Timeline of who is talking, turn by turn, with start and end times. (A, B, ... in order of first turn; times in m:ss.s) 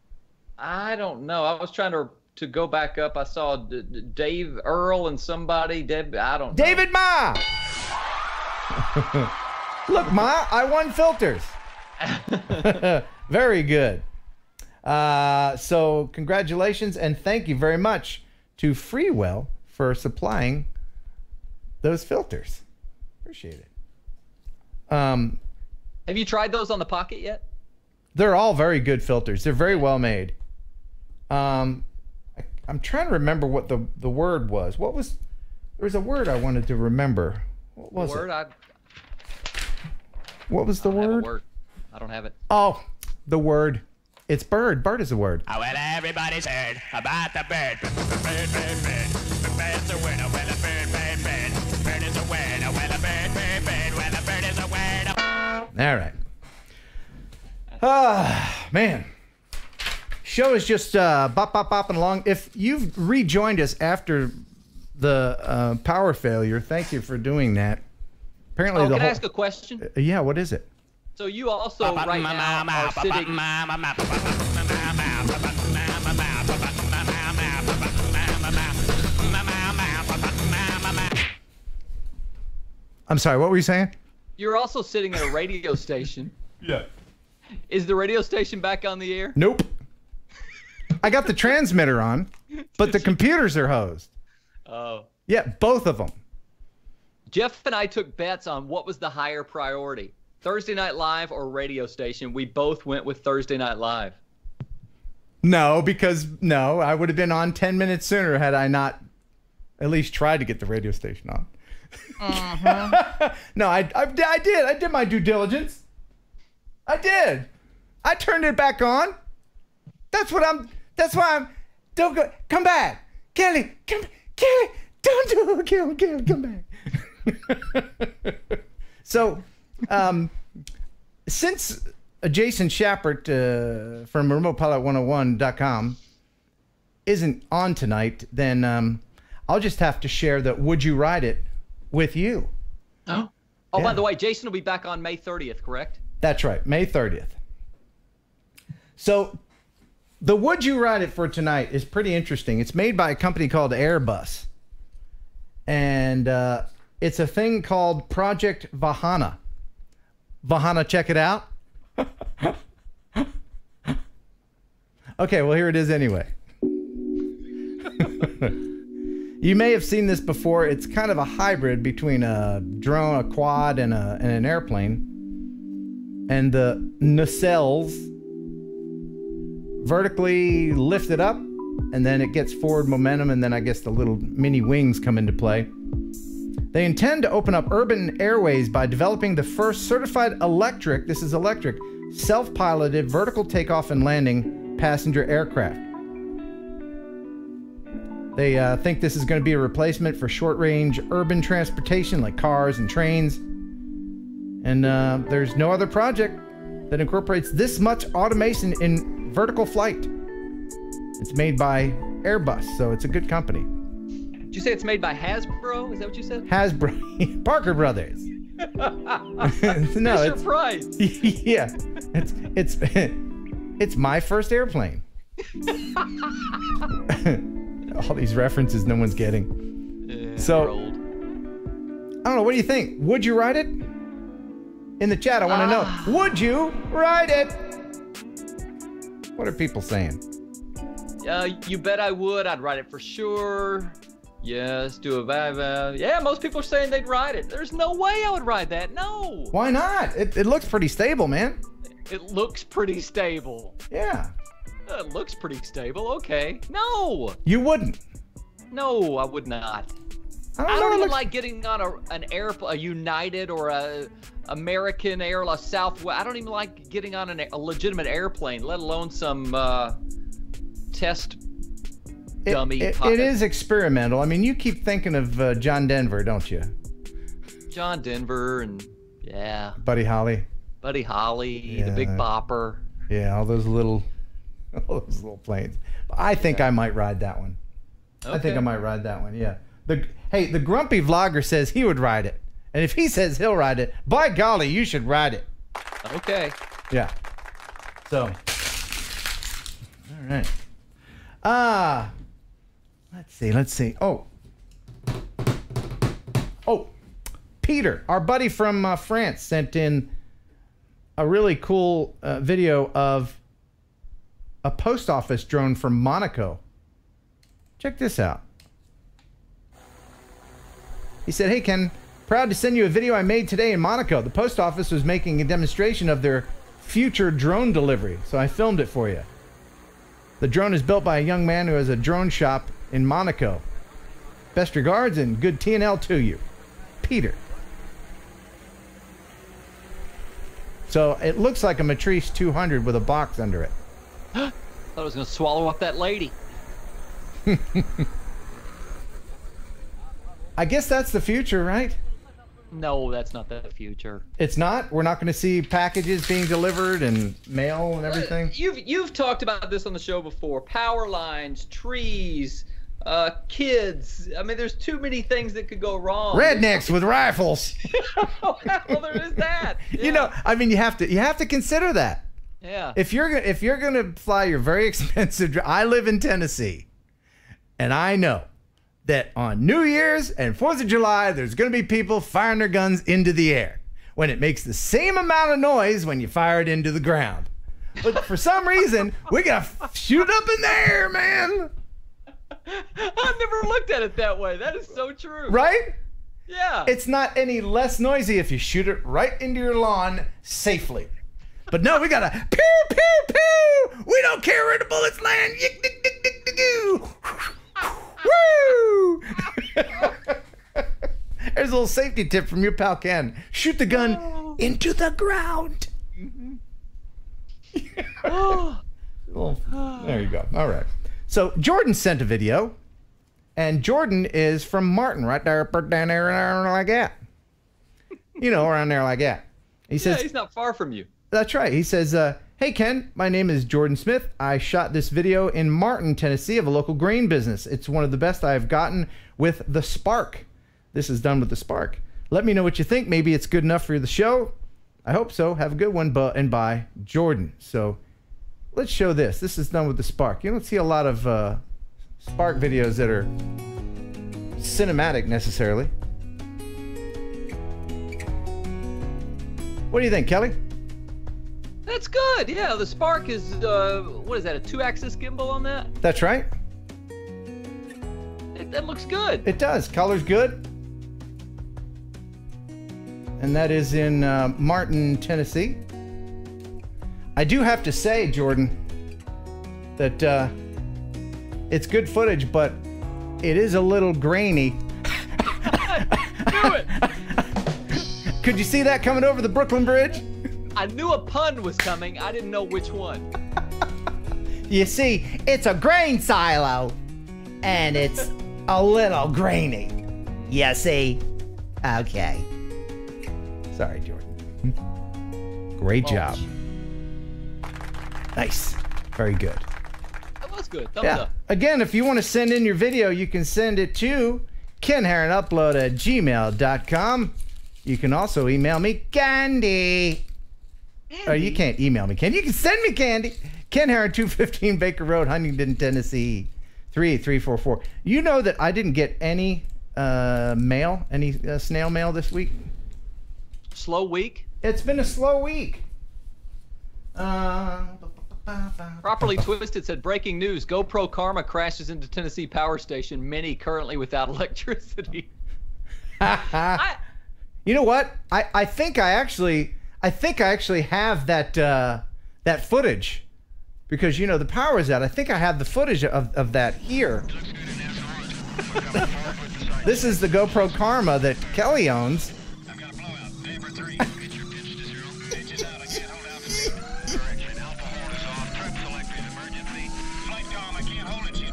0:00.6-0:06.8 A
0:06.5-0:07.4 B
0:08.7-0:09.3 B
0:09.9-0:11.6 B
0:12.0-0:12.8 A
0:12.5-0:14.0 B
0:14.8-0:20.7 B
0:21.8-0:22.6 B
0:23.2-0:23.7 B
0:24.9-0:25.4 B
0:26.1-0:27.4 A
0:28.1-0:30.3 B
0:31.3-0:31.8 B
0:32.4-0:35.2 B
0:35.8-0:38.3 B
0:37.9-0:38.5 A
0:40.5-0:41.3 B
0:40.8-0:42.3 A
0:42.5-0:45.4 B
0:45.6-0:55.1 C
0:55.7-0:56.2 B
0:57.8-0:59.1 B
1:00.2-1:04.4 B
1:05.0-1:07.8 B
1:08.6-1:09.2 B
1:08.7-1:09.8 A
1:09.8-1:10.7 B
1:11.2-1:13.5 A
1:11.8-1:15.3 C
1:17.2-1:17.6 C
1:19.4-1:20.9 C
1:23.1-1:23.9 B
1:24.4-1:26.3 A
1:26.6-1:26.9 B
1:27.7-1:29.4 A
1:29.4-1:29.7 B
1:31.0-1:34.1 B
1:32.8-1:33.1 A
1:34.7-1:35.1 A
1:35.3-1:36.2 B
1:37.3-1:44.2 A
1:45.4-1:49.0 B
1:49.8-1:51.5 B
1:52.1-1:55.8 B
1:52.2-1:53.0 A
1:56.9-1:57.5 B
1:58.0-1:59.2 B
2:00.1-2:10.3 B
2:11.3-2:16.0 B
2:17.0-2:22.5 B
2:23.1-2:26.0 A
2:23.7-2:24.0 B
2:26.2-2:27.4 B
2:29.0-2:29.4 B
2:30.2-2:34.5 B
2:35.7-2:39.4 B
2:40.4-2:42.6 B
2:45.2-2:46.3 B
2:48.0-2:48.6 B
2:49.4-2:55.1 B
2:56.3-2:58.1 B
2:59.8-3:05.7 B
3:06.7-3:15.8 B
3:18.3-3:23.4 B
3:24.6-3:30.1 B
3:31.2-3:33.7 B
3:34.5-3:36.5 A
3:36.5-3:38.3 B
3:38.6-3:41.0 A
3:39.4-3:40.4 B
3:41.0-3:43.2 B
3:43.8-3:45.0 B
3:47.1-3:49.5 B
3:50.0-3:51.0 A
3:50.4-3:50.7 B
3:52.2-3:53.8 B
3:55.0-3:57.6 B
3:55.5-3:56.2 A
3:59.3-4:00.2 B
4:01.2-4:09.5 A
4:09.5-4:11.6 B
4:12.1-4:13.8 A
4:13.9-4:14.3 B
4:14.9-4:17.4 A
4:17.4-4:18.0 B
4:18.7-4:19.9 A
4:20.6-4:21.2 B
4:20.7-4:30.0 A
4:30.9-4:31.4 A
4:32.4-4:36.7 B
4:32.5-4:33.4 A
4:37.7-4:39.8 A
4:39.8-4:40.5 B
4:40.8-4:42.8 A
4:41.7-4:42.2 B
4:43.1-4:44.0 B
4:44.7-4:47.6 B
4:48.2-4:48.6 A
4:48.3-4:55.5 B
4:56.0-4:56.6 A
4:58.0-4:58.4 B
5:00.0-5:00.5 B
5:01.4-5:02.1 B
5:03.1-5:04.3 B
5:06.6-5:06.9 B
5:07.6-5:10.1 B
5:11.2-5:13.4 B
5:14.6-5:16.6 B
5:17.8-5:18.4 B
5:21.2-5:29.3 B
5:30.4-5:33.6 B
5:34.5-5:36.4 B
5:37.0-5:37.4 B
5:40.9-5:43.8 B
5:44.3-5:46.4 A
5:47.4-5:48.0 B
5:50.6-5:52.0 B
5:52.7-5:54.2 A
5:54.4-5:58.5 B
5:58.0-6:07.0 A
6:06.3-6:07.8 B
6:08.0-6:10.3 A
6:09.8-6:12.2 B
6:12.6-6:13.0 A
6:12.9-6:16.9 B
6:17.8-6:18.5 B
6:19.0-6:27.5 B
6:28.0-6:31.7 B
6:32.6-6:35.6 A
6:35.5-6:36.0 B
6:36.5-6:36.9 A
6:36.8-6:41.1 B
6:41.7-6:50.8 B
6:51.4-6:55.9 B
6:53.9-6:54.6 A
6:56.2-6:56.6 A
6:57.7-6:58.6 B
6:58.2-6:58.8 A
6:59.3-7:02.8 B
6:59.7-7:00.2 A
7:03.6-7:07.2 B
7:08.4-7:10.2 B
7:10.0-7:11.1 A
7:11.3-7:24.5 B
7:25.0-7:28.0 B
7:28.7-7:31.6 B
7:32.2-7:33.3 B
7:34.6-7:35.9 B
7:39.9-7:40.6 B
7:41.8-7:45.9 A
7:46.0-7:46.5 B
7:48.5-7:49.4 A
7:49.4-7:50.6 B
7:53.4-7:55.8 B
7:57.4-7:58.8 B
8:00.0-8:00.5 B
8:01.7-8:02.8 B
8:03.4-8:10.3 B
8:05.7-8:06.9 A
8:10.7-8:13.3 A
8:14.7-8:17.0 B
8:17.6-8:21.2 B
8:20.4-8:20.6 A
8:21.8-8:22.5 B
8:23.7-8:24.7 B
8:25.8-8:26.4 B
8:26.0-8:26.4 A
8:28.3-8:29.6 B
8:30.4-8:31.3 A
8:31.0-8:40.2 B
8:41.1-8:41.6 A
8:41.2-8:52.7 B
8:53.7-8:54.4 A
8:54.6-8:55.8 B
8:57.1-8:59.3 B
8:59.0-9:05.3 A
9:06.2-9:06.8 B
9:06.7-9:07.0 A
9:07.6-9:13.2 B
9:13.9-9:17.3 B
9:19.8-9:22.3 B